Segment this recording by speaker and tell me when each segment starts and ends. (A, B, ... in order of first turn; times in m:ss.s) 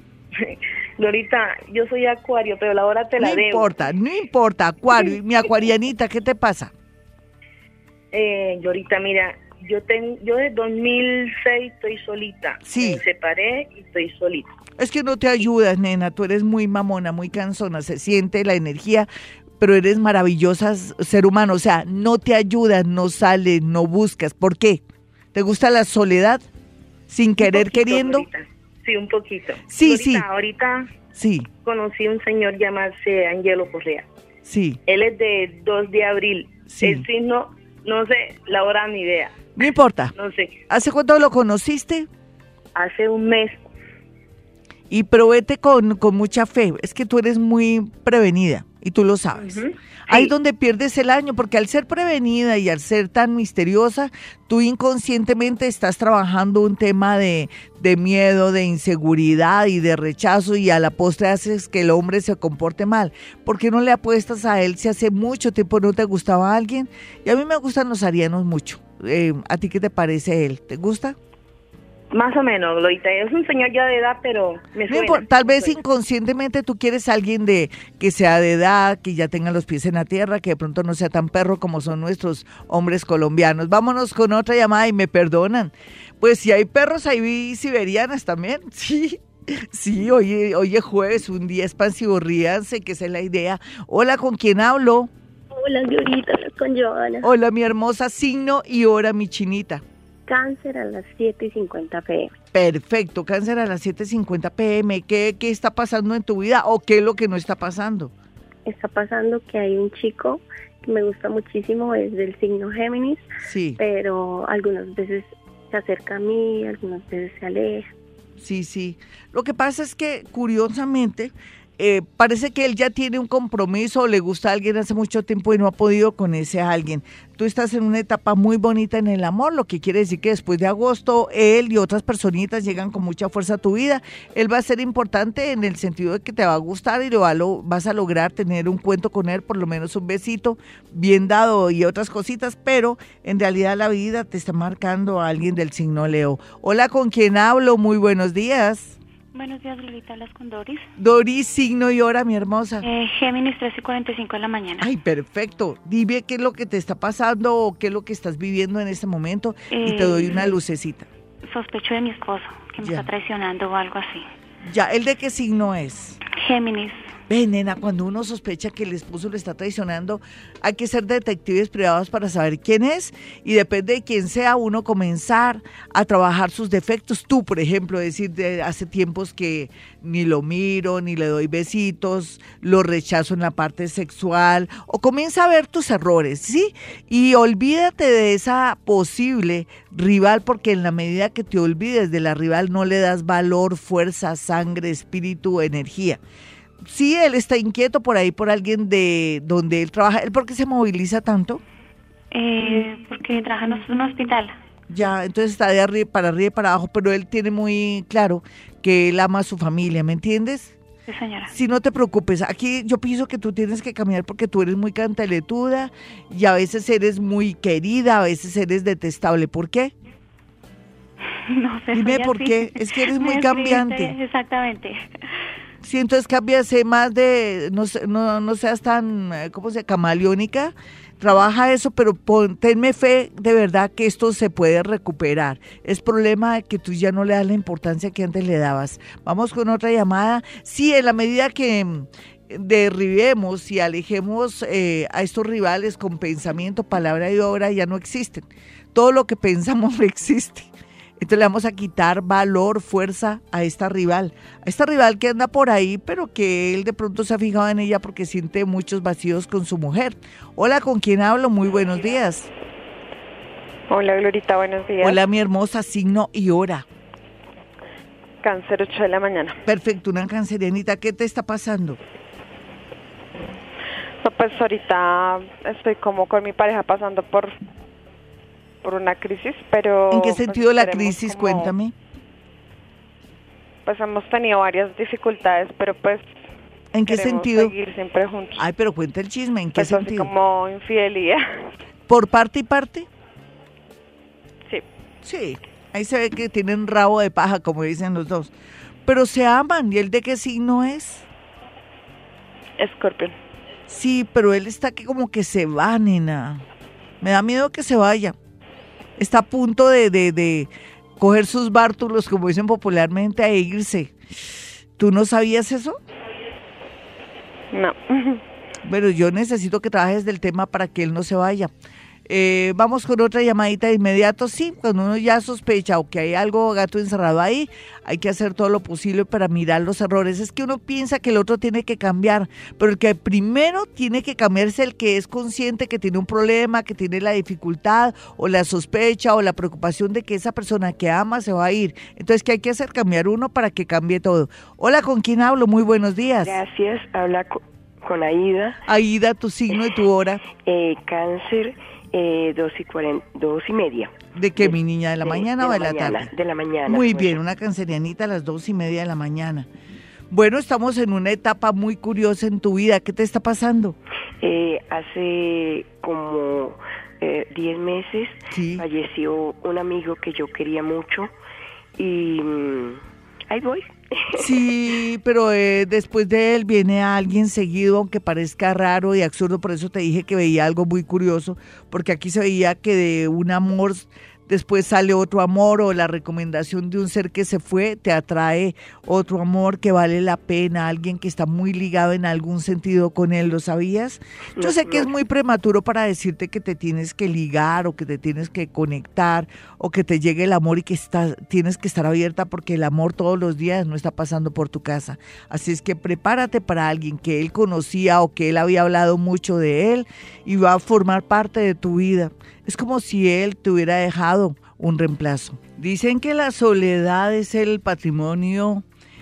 0:00.4-0:03.8 A
0:03.2-0:06.7 B
0:08.1-0:14.5 A
0:12.6-0:13.0 B
0:14.8-0:19.1 B
0:19.6-0:24.8 B
0:25.3-0:26.4 B
0:27.1-0:28.2 B
0:27.4-0:30.9 A
0:29.7-0:30.2 B
0:31.1-0:31.5 B
0:31.6-0:34.0 A
0:34.4-0:34.8 B
0:34.9-0:39.4 A
0:36.7-0:37.0 B
0:39.6-0:40.1 B
0:40.1-0:40.6 A
0:40.7-0:42.1 B
0:42.8-0:43.6 A
0:44.9-0:49.6 B
0:49.4-0:50.3 A
0:50.1-1:11.2 B
1:12.1-1:15.8 A
1:14.9-1:35.1 B
1:35.5-1:37.3 C
1:37.2-1:39.8 B
1:40.3-1:42.3 C
1:42.5-1:48.1 B
1:48.6-1:53.3 C
1:53.4-1:53.8 B
1:53.8-1:57.9 C
1:58.4-2:29.0 B
2:29.3-2:30.9 D
2:31.0-2:32.8 B
2:32.8-2:34.9 D
2:34.8-2:41.1 B
2:39.7-2:40.6 D
2:41.4-2:44.2 D
2:42.8-2:43.1 B
2:44.6-2:46.2 B
2:46.3-2:47.1 D
2:47.3-3:16.2 B
3:16.8-3:21.6 B
3:22.3-3:24.6 D
3:24.9-3:30.8 B
3:31.1-3:31.5 D
3:31.5-3:39.9 B
3:41.5-3:45.0 D
3:41.9-3:44.1 B
3:45.8-4:22.5 B
4:23.9-4:25.2 E
4:25.0-4:26.8 B
4:28.4-4:29.6 E
4:29.6-4:32.0 B
4:34.2-4:37.5 E
4:38.8-4:41.7 E
4:40.1-4:41.9 B
4:43.8-4:46.3 E
4:46.9-4:47.7 B
4:47.1-4:48.6 E
4:48.6-4:50.3 B
4:49.7-4:51.7 E
4:52.1-4:53.1 B
4:55.2-4:58.5 B
4:59.0-5:01.2 B
5:02.8-5:03.4 E
5:03.9-5:06.6 B
5:07.2-5:08.3 B
5:09.2-5:14.1 B
5:15.0-5:16.0 B
5:17.7-5:18.4 E
5:18.8-5:21.7 B
5:22.3-5:46.6 B
5:46.4-5:48.8 F
5:48.9-5:50.4 B
5:50.5-5:57.4 F
5:54.3-5:56.3 B
5:56.9-5:59.7 B
6:00.3-6:04.0 B
6:04.4-6:11.3 F
6:08.5-6:08.8 B
6:12.0-6:14.6 F
6:14.4-6:58.8 B
6:34.6-6:35.1 F